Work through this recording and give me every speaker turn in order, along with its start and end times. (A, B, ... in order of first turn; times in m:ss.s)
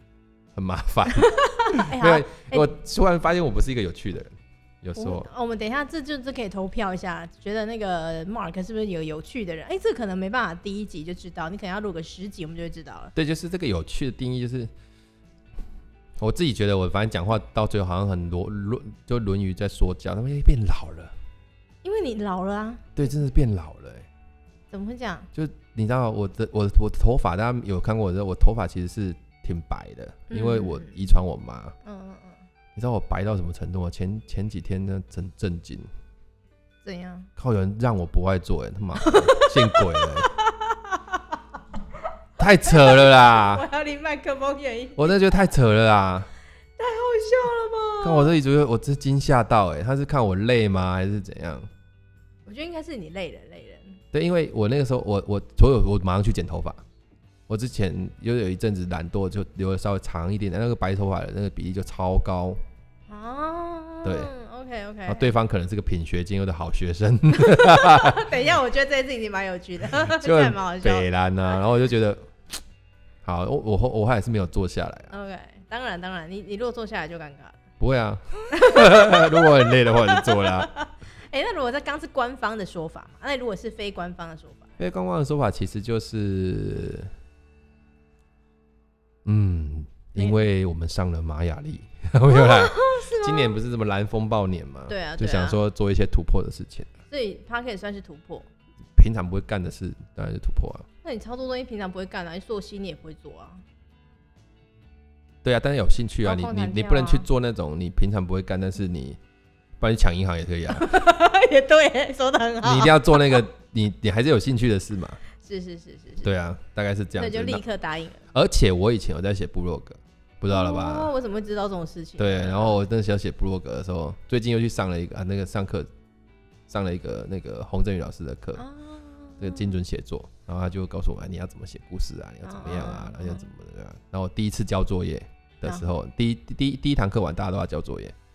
0:00.5-0:05.3 A
0:01.3-0:02.7 B
0:05.0-0:13.1 B
0:13.1-0:14.7 A
0:16.2-0:21.1 A
0:21.8-0:23.2 B
0:23.0-0:24.1 A
0:24.7-0:25.3 B
0:25.3-0:31.8 A
0:30.3-0:31.0 B
0:31.8-0:32.4 B
0:32.8-0:35.9 A
0:36.8-0:37.3 B
0:37.4-0:40.3 A
0:39.0-0:41.2 B
0:42.4-0:43.6 A
0:42.6-0:45.5 B
0:45.0-0:46.3 A
0:46.8-0:48.4 B
0:48.0-0:51.7 A
0:52.4-0:54.0 B
0:54.1-0:56.8 A
0:57.5-1:02.6 A
1:03.1-1:05.3 B
1:04.0-1:04.3 A
1:05.1-1:08.3 A
1:07.3-1:11.5 B
1:10.0-1:12.3 A
1:13.2-1:15.1 A
1:15.1-1:17.6 B
1:17.8-1:20.7 A
1:18.5-1:24.7 B
1:24.8-1:27.1 A
1:29.2-1:36.9 A
1:30.2-1:30.4 B
1:32.3-1:33.6 B
1:34.9-1:35.6 B
1:37.1-1:38.5 B
1:39.0-1:40.9 A
1:41.0-1:43.6 B
1:45.4-1:49.2 A
1:46.2-1:47.3 B
1:49.8-1:50.9 A
1:50.7-1:53.4 B
1:52.6-1:55.2 A
1:55.4-1:56.3 B
1:56.2-1:57.6 A
1:57.2-1:58.2 B
1:58.3-2:01.1 A
2:00.5-2:02.8 B
2:02.2-2:05.9 A
2:06.7-2:08.6 A
2:08.6-2:09.8 B
2:09.4-2:18.1 A
2:12.4-2:13.4 B
2:15.6-2:15.9 B